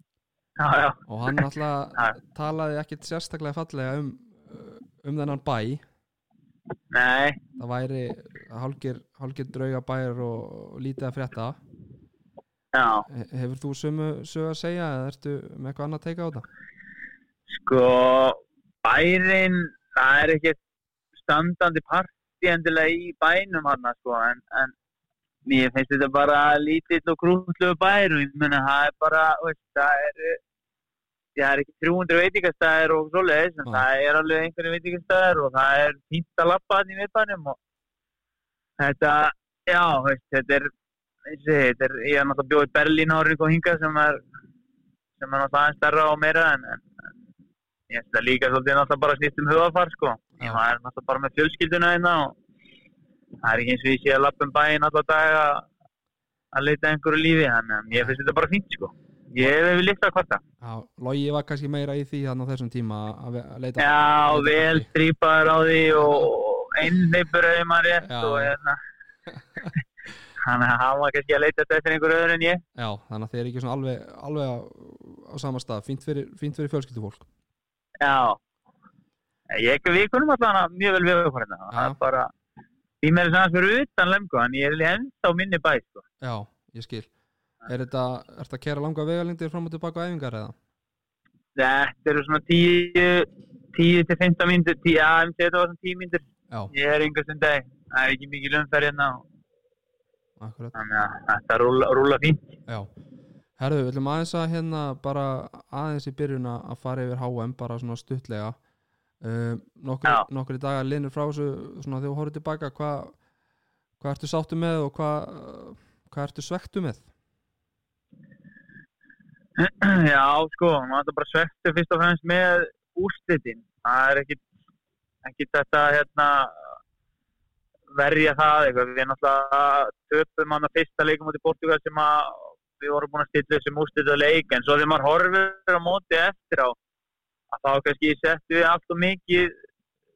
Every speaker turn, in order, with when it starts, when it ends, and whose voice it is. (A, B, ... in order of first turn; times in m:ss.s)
0:00.6-0:02.2 A
0:01.1-0:05.8 B
0:06.9-0:07.4 A
0:07.6-0:11.6 B
0:12.7-0:13.0 A
0:13.1-0:16.5 B
0:17.5-0:20.6 A
0:21.2-0:24.7 A
0:25.4-0:30.4 A
0:31.4-0:37.6 A
0:38.8-0:40.7 A
0:41.3-0:44.2 A
0:45.2-0:46.8 A
0:47.9-0:52.3 A
0:53.4-0:55.6 A
0:56.5-1:00.4 A
1:00.6-1:04.9 B
1:03.8-1:08.8 A
1:06.0-1:06.3 B
1:08.0-1:08.6 B
1:09.3-1:09.7 B
1:10.4-1:12.6 A
1:12.8-1:17.2 B
1:18.0-1:18.4 A
1:19.5-1:22.3 A
1:21.7-1:22.0 B
1:23.0-1:26.0 A
1:26.2-1:27.1 B
1:27.6-1:30.5 B
1:31.6-1:39.2 A
1:40.4-1:40.7 B
1:40.7-1:42.4 A
1:43.6-1:48.6 B
1:49.2-1:53.2 B
1:54.0-1:57.1 B
1:59.6-2:04.4 A
2:05.2-2:06.5 A
2:07.9-2:16.7 A
2:17.5-2:19.5 A